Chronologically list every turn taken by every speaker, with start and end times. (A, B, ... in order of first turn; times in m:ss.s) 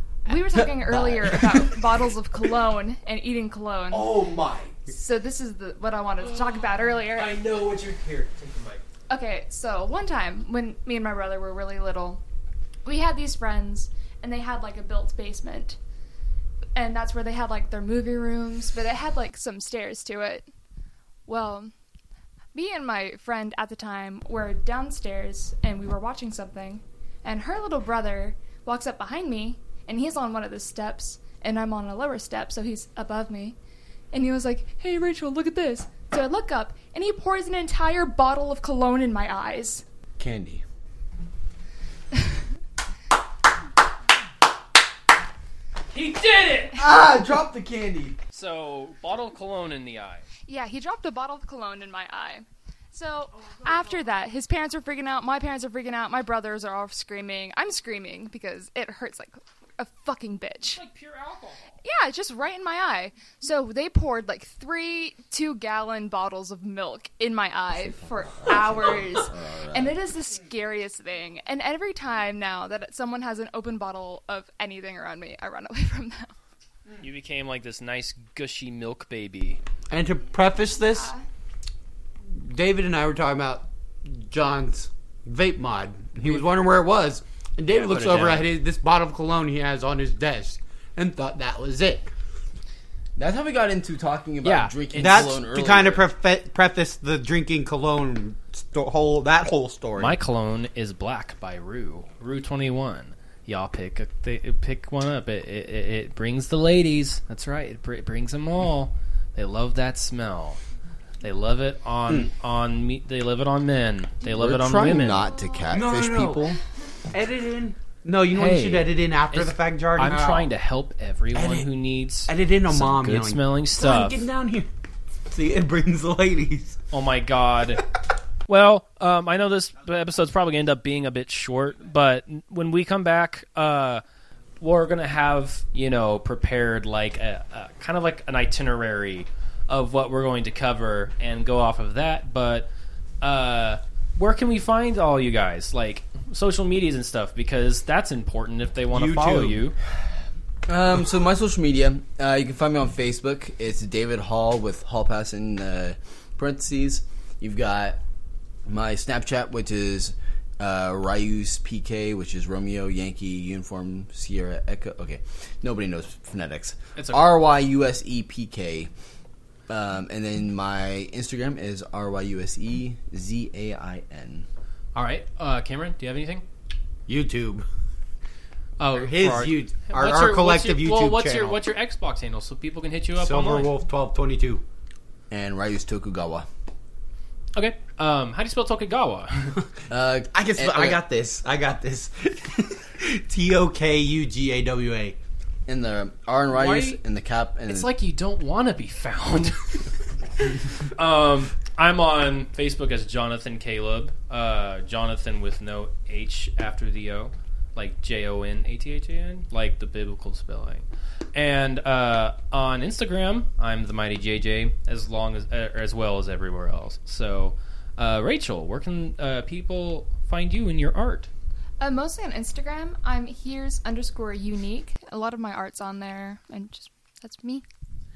0:00.2-0:04.1 A
0:00.6-0:01.8 B
0:03.9-0:04.7 B
0:04.9-0:07.4 A
0:06.2-0:08.8 C
0:09.1-0:12.2 A
0:12.8-0:15.8 A
0:16.8-0:20.4 A
0:21.2-0:21.7 A
0:22.5-0:33.6 A
0:34.1-0:39.8 A
0:40.2-0:40.6 B
0:45.9-0:46.8 C
0:46.8-0:48.2 B
0:48.3-0:50.2 C
0:50.5-1:00.8 A
0:53.5-0:53.8 C
1:00.7-1:01.8 C
1:01.8-1:16.3 A
1:07.8-1:10.0 B
1:17.0-1:19.6 C
1:19.9-1:21.1 D
1:20.9-1:21.2 A
1:22.4-1:32.1 D
1:27.7-1:28.5 C
1:33.2-1:36.1 B
1:34.4-1:35.3 C
1:35.0-1:40.2 D
1:40.0-1:50.6 C
1:51.2-1:55.3 C
1:54.2-1:56.6 B
1:55.1-1:55.7 A
1:55.7-1:56.5 D
1:57.1-2:00.5 D
1:58.3-2:04.3 C
2:01.3-2:01.7 D
2:02.3-2:04.7 D
2:05.3-2:06.8 D
2:06.9-2:07.8 C
2:08.5-2:14.0 C
2:14.6-2:22.7 C
2:23.2-2:29.8 C
2:28.9-2:29.6 D
2:30.6-2:38.0 B
2:38.6-2:48.9 B
2:47.0-2:47.2 C
2:49.7-2:54.5 B
2:54.9-2:56.4 C
2:57.1-2:57.6 D
2:58.8-3:03.7 C
2:58.9-3:01.6 D
3:03.2-3:04.6 D
3:05.3-3:06.5 B
3:07.5-3:09.5 C
3:09.9-3:11.0 B
3:10.3-3:15.2 D
3:15.7-3:17.9 B
3:16.5-3:17.0 C
3:17.7-3:41.3 C
3:41.8-3:47.6 A